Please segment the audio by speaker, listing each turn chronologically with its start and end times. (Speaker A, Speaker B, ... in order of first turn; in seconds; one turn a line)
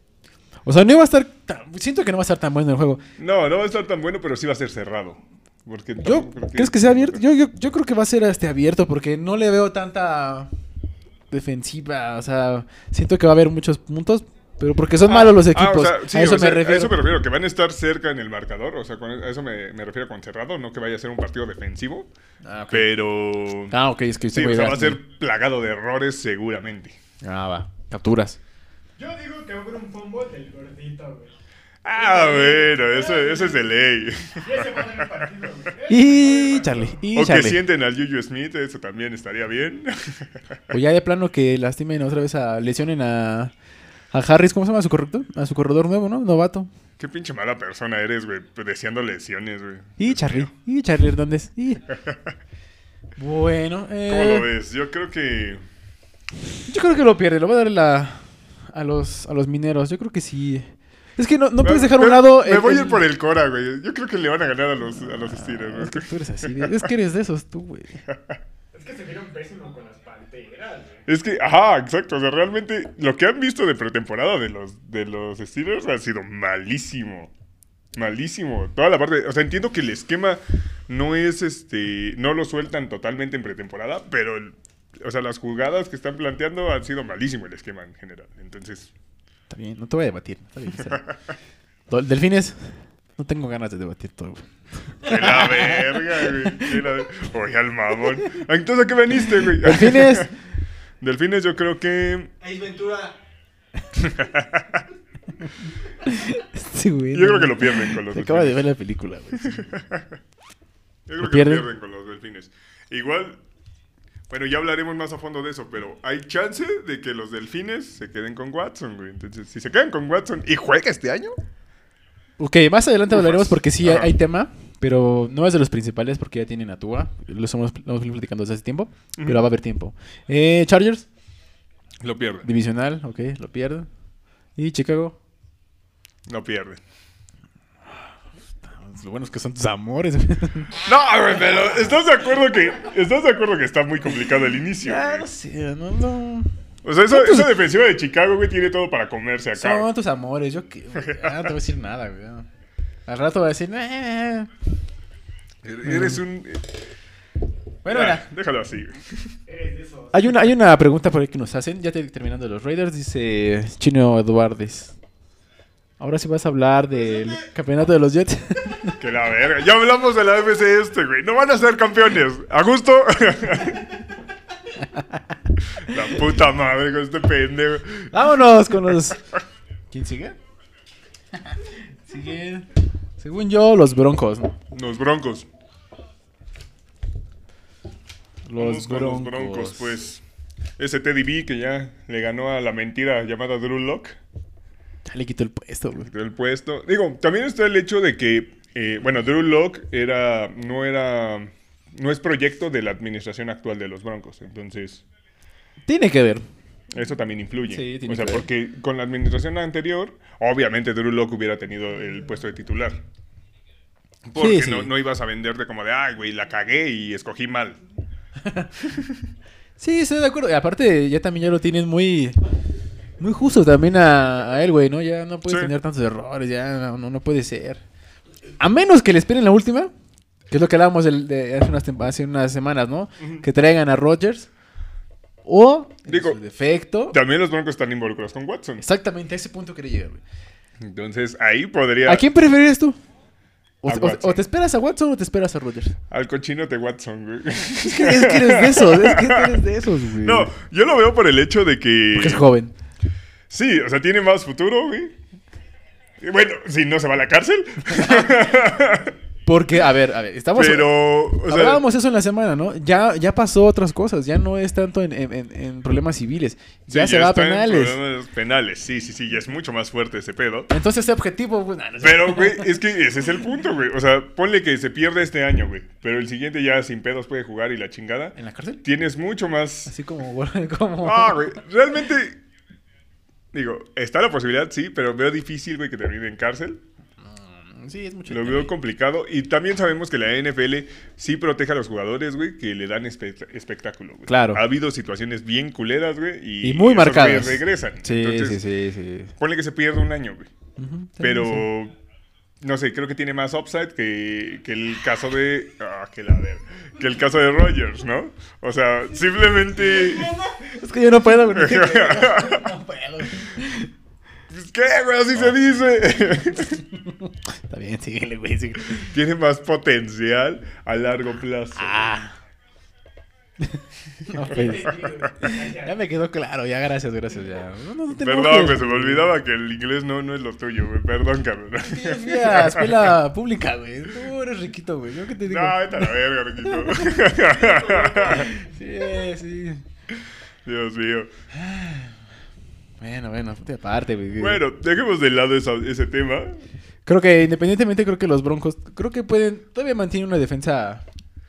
Speaker A: 0.6-3.0
Speaker B: 3.2-7.2
Speaker A: 6.0-10.5
Speaker A: 11.3-17.0
Speaker B: 15.1-22.1
Speaker A: 22.4-22.9
Speaker B: 22.7-23.7
Speaker A: 23.7-25.0
Speaker B: 24.3-27.0
Speaker A: 27.2-28.4
Speaker C: 29.0-31.3
Speaker B: 31.8-35.2
Speaker C: 31.9-33.7
Speaker C: 34.3-37.0
Speaker A: 35.9-37.6
Speaker B: 37.1-40.6
Speaker A: 40.7-43.5
Speaker A: 44.1-46.7
Speaker B: 47.0-50.5
Speaker A: 50.0-51.8
Speaker B: 51.9-52.4
Speaker A: 53.2-54.5
Speaker B: 54.1-55.6
Speaker A: 56.6-63.0
Speaker B: 61.6-66.9
Speaker A: 64.8-68.0
Speaker B: 68.0-68.4
Speaker C: 68.7-71.0
Speaker B: 71.0-77.3
Speaker B: 77.9-88.9
Speaker A: 89.5-91.0
Speaker B: 90.8-91.1
Speaker A: 91.9-96.8
Speaker B: 95.0-100.3
Speaker A: 99.4-100.3
Speaker B: 101.0-102.3
Speaker C: 102.4-103.1
Speaker B: 104.0-104.8
Speaker A: 105.4-109.7
Speaker B: 107.1-108.6
Speaker B: 109.4-110.2
Speaker B: 111.1-113.4
Speaker A: 111.2-111.7
Speaker B: 114.3-121.4
Speaker A: 122.4-131.1
Speaker B: 123.1-124.1
Speaker B: 129.2-129.4
Speaker B: 132.0-132.5
Speaker A: 132.4-133.9
Speaker A: 134.6-135.2
Speaker B: 136.3-136.8
Speaker A: 138.6-140.8
Speaker B: 140.8-145.3
Speaker A: 144.8-146.5
Speaker B: 146.8-149.9
Speaker A: 147.1-147.6
Speaker A: 149.5-152.4
Speaker B: 151.0-151.4
Speaker A: 153.1-154.5
Speaker B: 155.6-156.7
Speaker A: 155.8-156.2
Speaker A: 157.8-158.2
Speaker B: 157.9-159.3
Speaker C: 159.5-160.2
Speaker A: 160.1-165.0
Speaker A: 166.0-169.0
Speaker B: 169.0-174.0
Speaker A: 174.8-175.4
Speaker B: 175.7-178.2
Speaker A: 178.1-179.2
Speaker A: 179.9-180.4
Speaker A: 181.4-182.7
Speaker A: 183.2-184.6
Speaker B: 184.7-185.5
Speaker A: 188.4-190.0
Speaker B: 188.6-190.2
Speaker B: 190.8-194.2
Speaker A: 195.1-196.1
Speaker B: 196.0-205.0
Speaker A: 205.8-206.4
Speaker B: 206.9-213.0
Speaker A: 207.7-208.5
Speaker B: 214.2-217.8
Speaker A: 214.3-214.9
Speaker A: 218.4-218.7
Speaker B: 218.8-219.2
Speaker A: 219.8-222.4
Speaker A: 223.2-227.8
Speaker B: 225.5-225.7
Speaker A: 228.6-229.9
Speaker A: 230.5-234.5
Speaker A: 235.4-237.2
Speaker B: 236.1-236.4
Speaker B: 237.1-238.8
Speaker A: 238.8-240.2
Speaker B: 240.8-242.2
Speaker A: 242.0-243.0
Speaker A: 243.8-245.9
Speaker B: 243.9-244.4
Speaker B: 246.1-252.5
Speaker A: 247.8-250.5
Speaker A: 252.1-252.7
Speaker B: 253.5-255.2
Speaker B: 256.2-259.1
Speaker A: 259.4-268.0
Speaker B: 260.5-261.8
Speaker B: 266.9-270.7
Speaker A: 270.7-272.8
Speaker B: 272.0-279.9
Speaker A: 278.4-278.8
Speaker A: 279.9-281.6
Speaker B: 281.0-282.4
Speaker B: 283.5-286.8
Speaker A: 287.2-288.7
Speaker B: 288.3-298.6
Speaker A: 294.3-294.6
Speaker A: 296.6-299.3
Speaker B: 299.4-300.5
Speaker A: 300.8-301.7
Speaker B: 301.2-301.9
Speaker B: 302.6-310.4
Speaker A: 310.5-313.9
Speaker B: 311.5-312.8
Speaker B: 314.5-316.8
Speaker A: 316.7-319.1
Speaker B: 318.9-322.1
Speaker A: 321.8-322.4
Speaker A: 323.6-329.3
Speaker C: 324.5-325.9
Speaker B: 328.1-333.1
Speaker A: 331.8-337.3
Speaker B: 335.4-338.5
Speaker C: 337.6-338.3
Speaker A: 338.2-339.8
Speaker B: 340.6-341.3
Speaker A: 341.5-342.2
Speaker A: 343.0-344.6
Speaker B: 344.4-346.6
Speaker A: 347.1-351.0